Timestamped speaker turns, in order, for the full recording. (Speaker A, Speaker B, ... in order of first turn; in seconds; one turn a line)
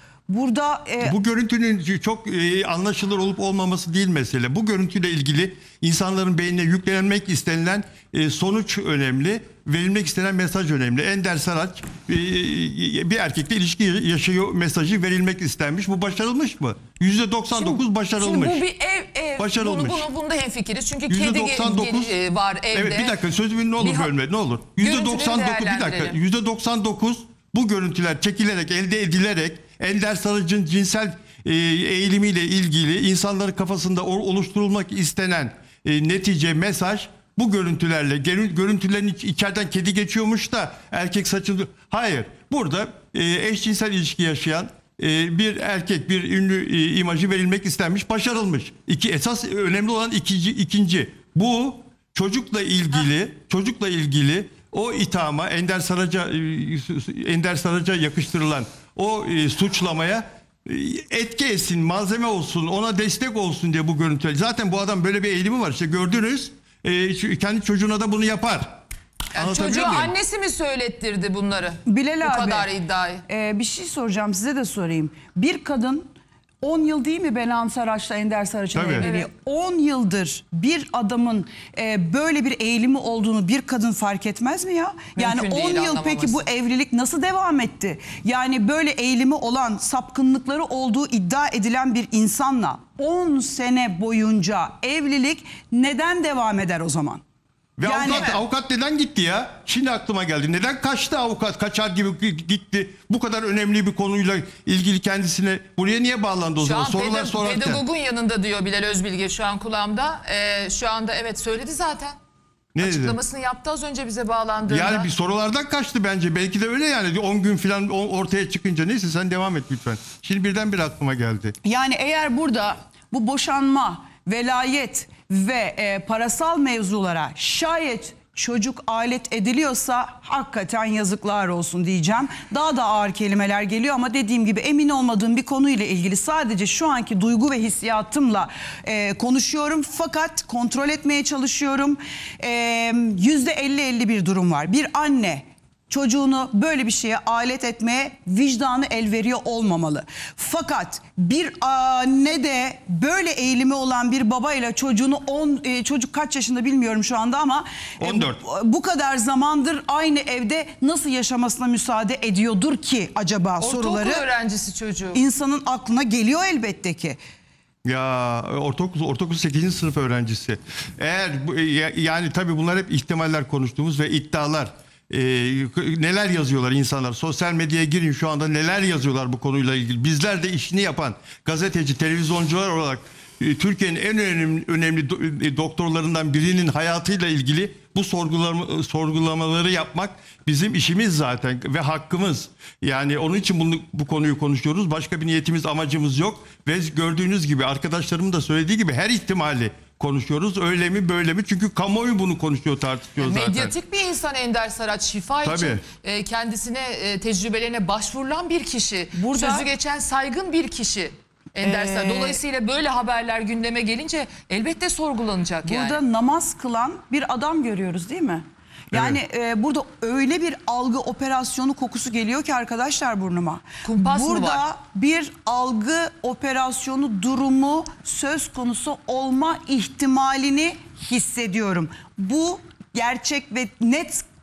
Speaker A: 0.3-1.1
Speaker B: 1.0-18.6
Speaker C: 17.6-23.2
Speaker B: 19.4-20.1
Speaker B: 21.1-22.1
Speaker B: 22.7-68.8
Speaker C: 23.8-24.1
Speaker C: 24.8-26.2
Speaker C: 69.3-73.2
Speaker B: 69.3-70.1
Speaker A: 71.9-72.7
Speaker A: 73.3-76.0
Speaker A: 76.6-97.2
Speaker B: 78.7-79.1
Speaker C: 79.0-79.3
Speaker C: 85.2-86.5
Speaker B: 97.8-107.8
Speaker A: 97.8-98.4
Speaker C: 106.6-112.2
Speaker B: 112.7-113.2
Speaker C: 112.8-115.1
Speaker B: 114.7-121.5
Speaker A: 121.6-164.2
Speaker B: 158.0-158.4
Speaker C: 163.6-165.2
Speaker A: 165.1-167.2
Speaker B: 167.8-203.7
Speaker C: 203.2-216.0
Speaker B: 205.4-205.8
Speaker A: 209.2-209.7
Speaker A: 211.6-212.4
Speaker A: 215.6-234.2
Speaker B: 218.9-219.2
Speaker C: 223.8-224.6